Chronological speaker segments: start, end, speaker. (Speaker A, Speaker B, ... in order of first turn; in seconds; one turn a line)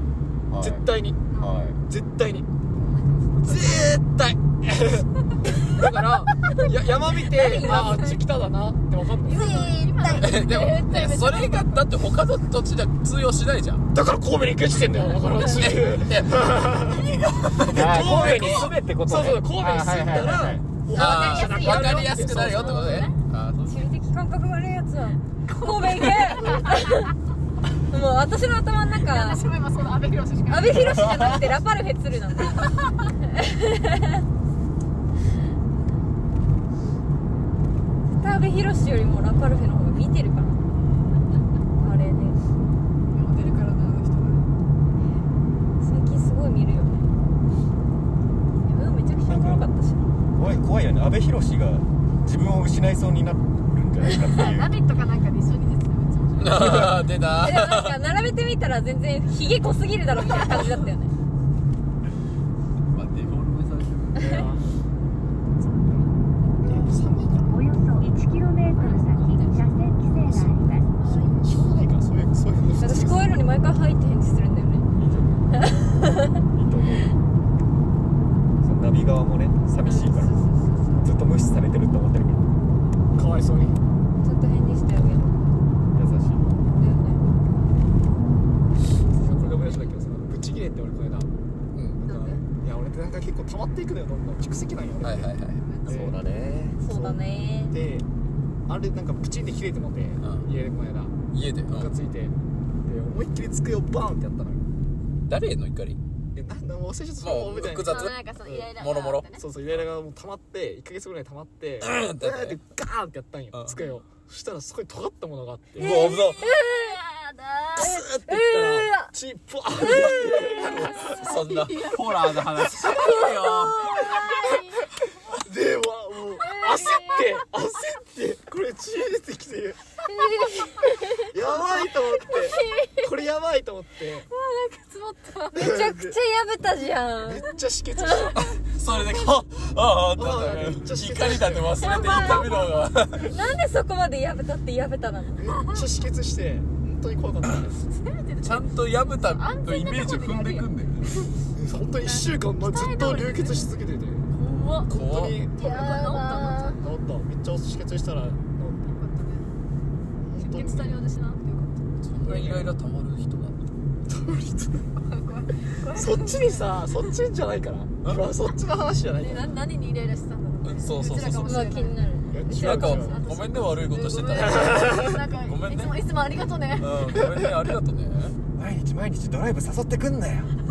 Speaker A: 0.5-1.8
Speaker B: 0.6-1.3
Speaker C: 1.3-1.6
Speaker B: 1.8-2.5
Speaker C: 2.7-3.9
Speaker B: 3.4-9.4
Speaker D: 7.3-8.2
Speaker C: 7.4-8.2
Speaker C: 9.2-11.9
Speaker D: 9.3-10.3
Speaker E: 10.2-13.8
Speaker B: 13.9-23.1
Speaker E: 15.2-18.7
Speaker A: 17.7-20.6
Speaker D: 20.9-22.0
Speaker E: 20.9-23.9
Speaker C: 21.5-21.7
Speaker C: 22.3-23.2
Speaker D: 23.7-27.1
Speaker C: 25.5-27.1
Speaker D: 27.9-29.4
Speaker C: 28.9-31.3
Speaker D: 30.5-34.2
Speaker C: 32.6-33.0
Speaker D: 38.1-40.6
Speaker D: 41.8-42.4
Speaker C: 43.1-44.5
Speaker D: 45.8-47.1
Speaker D: 48.6-50.1
Speaker A: 49.2-49.7
Speaker A: 50.4-54.8
Speaker C: 54.3-57.1
Speaker E: 56.4-58.0
Speaker D: 57.3-61.1
Speaker E: 62.9-64.5
Speaker B: 64.2-64.6
Speaker C: 65.5-66.2
Speaker B: 66.6-67.7
Speaker F: 67.4-71.0
Speaker C: 68.8-69.8
Speaker C: 71.0-71.3
Speaker B: 71.0-73.3
Speaker D: 72.8-74.9
Speaker A: 75.0-75.4
Speaker D: 75.6-76.4
Speaker A: 76.4-77.2
Speaker A: 78.6-80.4
Speaker D: 79.8-81.1
Speaker A: 81.0-82.5
Speaker B: 83.1-83.8
Speaker D: 84.2-85.4
Speaker A: 85.9-86.5
Speaker D: 86.8-87.4
Speaker B: 89.2-91.3
Speaker D: 89.4-89.8
Speaker E: 91.7-92.0
Speaker C: 92.0-92.4
Speaker B: 92.0-95.3
Speaker E: 95.0-95.7
Speaker C: 95.6-96.2
Speaker B: 95.9-96.2
Speaker A: 95.9-96.8
Speaker D: 96.8-97.8
Speaker B: 96.8-98.1
Speaker B: 98.7-104.7
Speaker E: 100.2-100.5
Speaker E: 101.3-102.0
Speaker E: 105.3-106.0
Speaker B: 106.3-108.7
Speaker E: 107.2-109.8
Speaker C: 107.8-109.4
Speaker B: 109.3-116.1
Speaker E: 111.8-112.6
Speaker E: 113.5-113.8
Speaker E: 115.8-116.5
Speaker D: 115.8-117.0
Speaker C: 116.0-117.9
Speaker D: 117.8-119.1
Speaker B: 117.8-121.2
Speaker D: 119.8-121.0
Speaker E: 120.8-124.0
Speaker C: 121.1-122.8
Speaker D: 122.8-124.3
Speaker C: 124.0-124.7
Speaker B: 124.1-124.5
Speaker B: 125.3-129.8
Speaker D: 126.4-127.3
Speaker D: 130.1-131.3
Speaker B: 131.2-134.3
Speaker C: 131.6-133.1
Speaker D: 132.3-133.0
Speaker C: 134.3-135.8
Speaker D: 135.5-137.5
Speaker B: 135.6-136.2
Speaker B: 137.2-138.6
Speaker D: 138.0-138.3
Speaker E: 138.3-143.4
Speaker B: 140.1-142.5
Speaker D: 141.8-142.7
Speaker D: 143.2-145.5
Speaker B: 145.4-147.8
Speaker C: 145.5-145.9
Speaker C: 147.9-151.3
Speaker E: 148.4-151.2
Speaker B: 151.5-154.3
Speaker C: 152.0-153.8
Speaker C: 154.4-154.9
Speaker D: 154.4-154.8
Speaker B: 154.9-156.1
Speaker E: 154.9-155.4
Speaker C: 155.6-156.8
Speaker D: 155.6-156.8
Speaker B: 156.8-159.0
Speaker C: 158.9-159.5
Speaker B: 160.2-161.0
Speaker C: 160.3-161.9
Speaker E: 162.0-163.6
Speaker B: 162.2-162.8
Speaker B: 164.1-164.9
Speaker C: 165.0-166.8
Speaker B: 165.9-169.5
Speaker E: 168.0-168.3
Speaker C: 169.2-172.0
Speaker E: 170.6-171.6
Speaker D: 171.5-173.1
Speaker B: 172.3-173.2
Speaker E: 172.5-176.0
Speaker C: 172.8-177.1
Speaker B: 174.6-175.2
Speaker E: 176.8-178.4
Speaker A: 178.6-180.5